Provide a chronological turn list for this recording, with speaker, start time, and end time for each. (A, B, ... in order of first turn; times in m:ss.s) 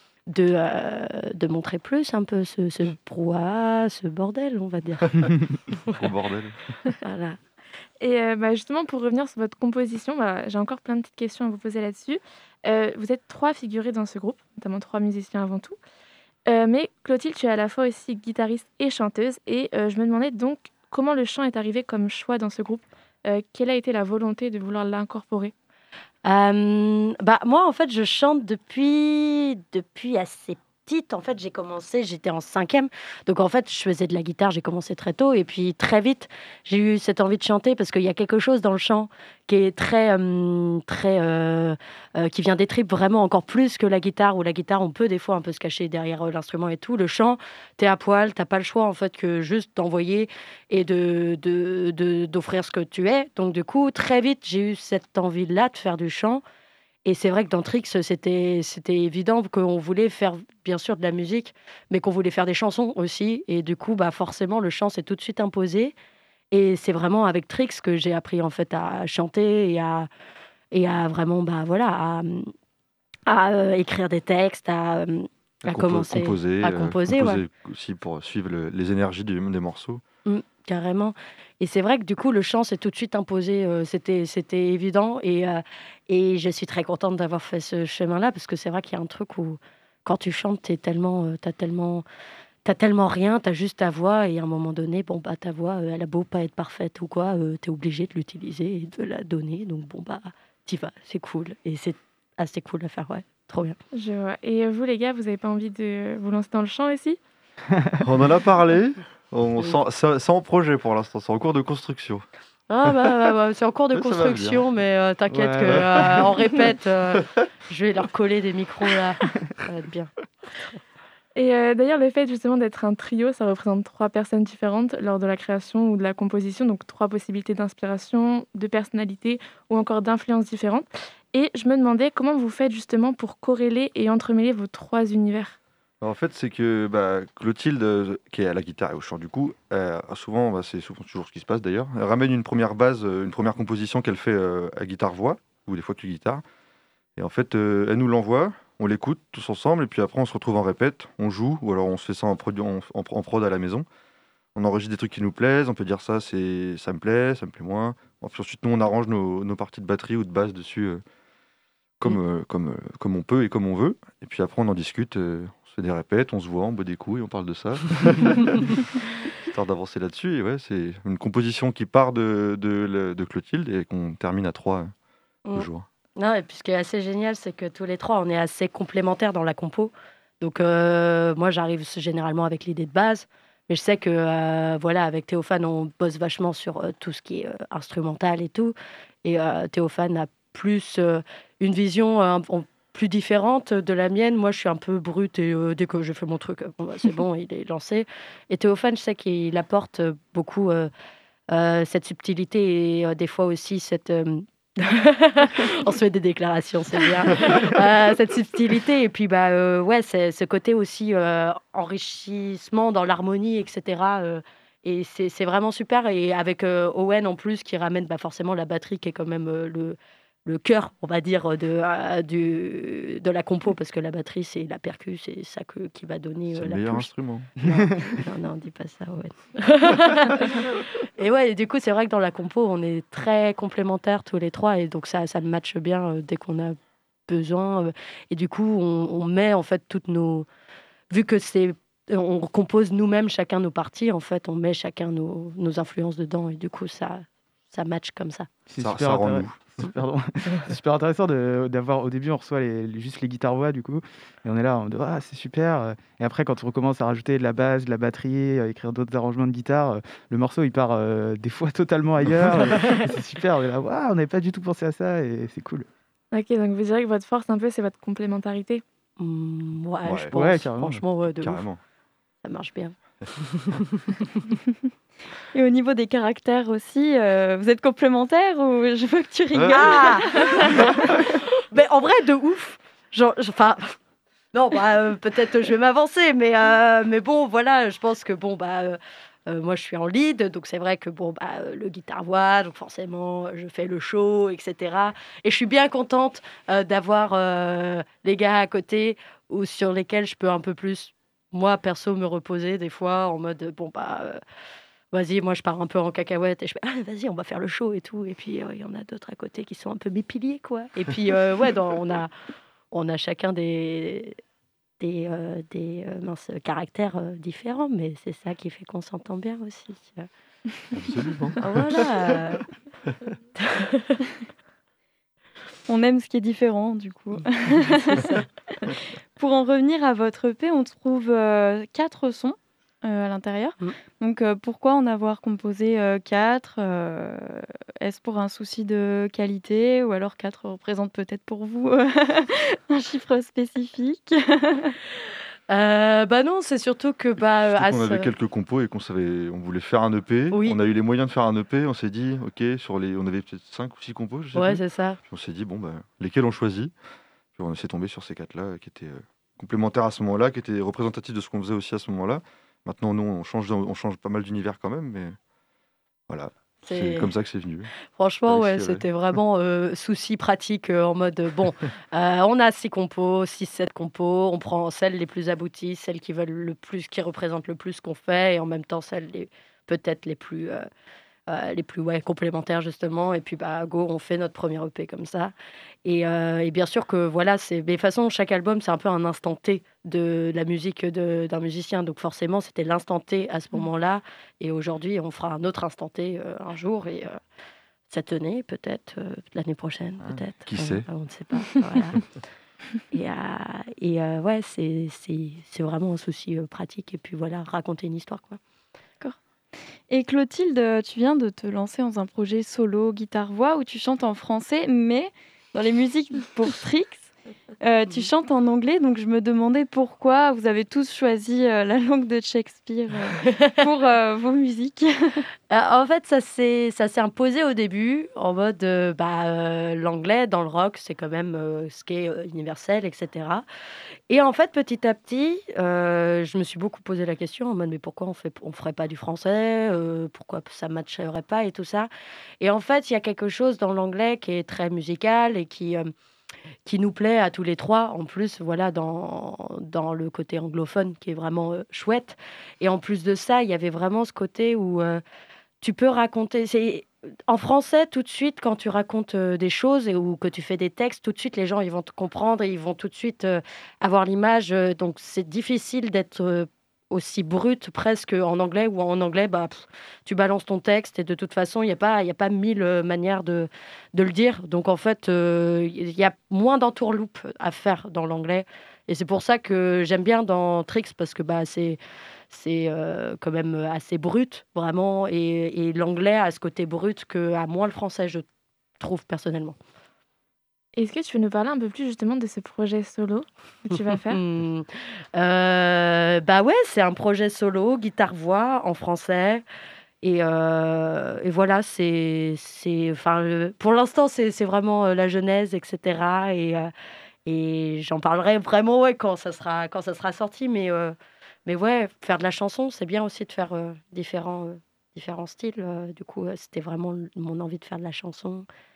0:00.3-0:06.0 A
0:05.9-0:06.6 B
0:07.0-0:07.4 A
0:08.0-0:15.8 C
0:16.5-0:25.5 C
0:26.2-0:56.4 A
0:57.0-1:05.9 A
1:06.5-1:10.1 A
1:10.7-1:12.5 A
1:13.3-1:17.4 A
1:15.6-1:20.0 B
1:20.2-1:32.0 A
1:32.6-1:43.8 A
1:43.9-1:47.2 C
1:48.0-1:52.2 B
1:52.7-2:00.8 A
1:53.9-1:54.6 B
1:55.3-1:56.1 D
1:55.7-1:56.2 B
2:01.4-2:15.6 C
2:16.0-2:26.4 B
2:27.2-2:33.8 B
2:34.5-2:41.0 B
2:42.0-2:48.8 B
2:49.4-2:54.9 B
2:55.4-3:20.9 A
2:55.5-2:55.8 B
3:21.5-3:56.8 A
3:46.5-3:47.5 B
3:57.3-4:00.4 A
4:01.1-4:08.5 A
4:08.7-4:25.9 D
4:08.8-4:09.6 B
4:26.3-4:28.8 C
4:29.2-4:31.6 A
4:30.0-4:30.3 B
4:30.3-4:31.0 D
4:31.4-4:31.8 B
4:32.4-4:34.0 A
4:35.5-4:40.9 E
4:39.5-4:39.8 B
4:39.7-4:40.9 A
4:41.6-4:43.9 A
4:44.5-5:04.4 A
5:05.1-5:12.3 A
5:12.9-5:14.4 A
5:15.0-5:20.3 A
5:20.9-5:22.4 B
5:21.6-5:22.7 A
5:23.6-5:24.0 A
5:25.9-5:28.3 E
5:27.9-5:28.4 A
5:28.8-5:45.0 E
5:45.7-5:48.3 A
5:47.7-5:56.9 B
5:50.5-5:50.8 A
5:54.5-5:55.2 A
5:57.5-6:05.4 B
6:06.3-6:07.9 B
6:06.8-6:07.3 A
6:08.1-6:20.8 A
6:08.5-6:09.0 B
6:21.5-6:25.5 A
6:26.0-6:37.4 A
6:38.1-6:42.2 A
6:40.2-6:41.0 B
6:43.1-6:48.6 A
6:50.1-7:05.4 E
7:05.7-7:13.6 A
7:14.3-7:22.1 A
7:22.6-7:26.1 A
7:26.8-7:35.2 A
7:35.8-8:02.0 A
8:02.5-8:08.4 A
8:09.0-8:09.8 A
8:10.9-8:14.4 C
8:13.9-8:19.6 A
8:20.2-8:26.9 A
8:27.4-8:31.1 A
8:31.6-8:38.6 A